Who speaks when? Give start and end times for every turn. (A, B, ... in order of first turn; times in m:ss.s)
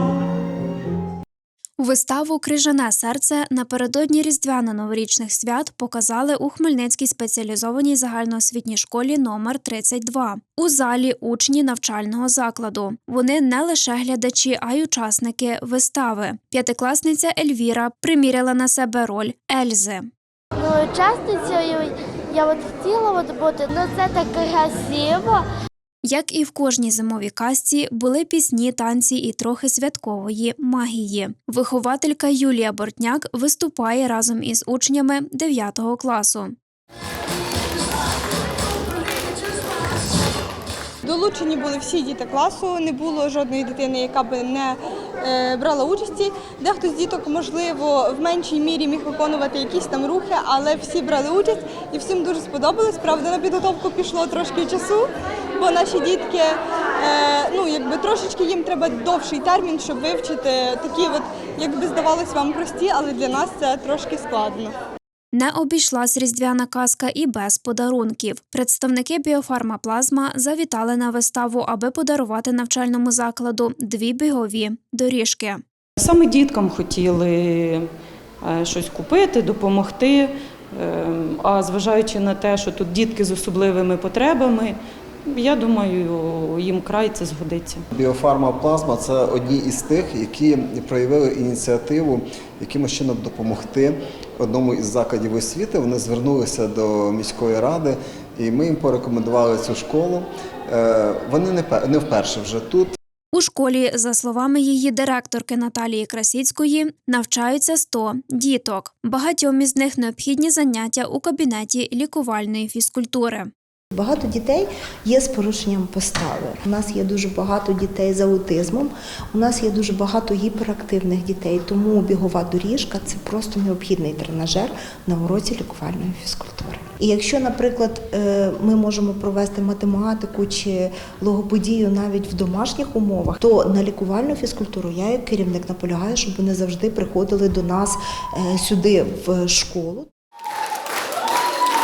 0:01.8-0:20.1 A
0:20.7-0:21.8 B
0:22.4-0:25.4 B
0:26.0-0:36.5 A
0:41.0-1:04.7 C
1:05.3-1:15.6 A
1:16.0-1:17.9 D
1:18.4-1:24.8 D
1:25.3-1:27.8 D
1:27.9-1:42.9 E
1:43.3-1:53.5 A
1:53.9-2:20.1 F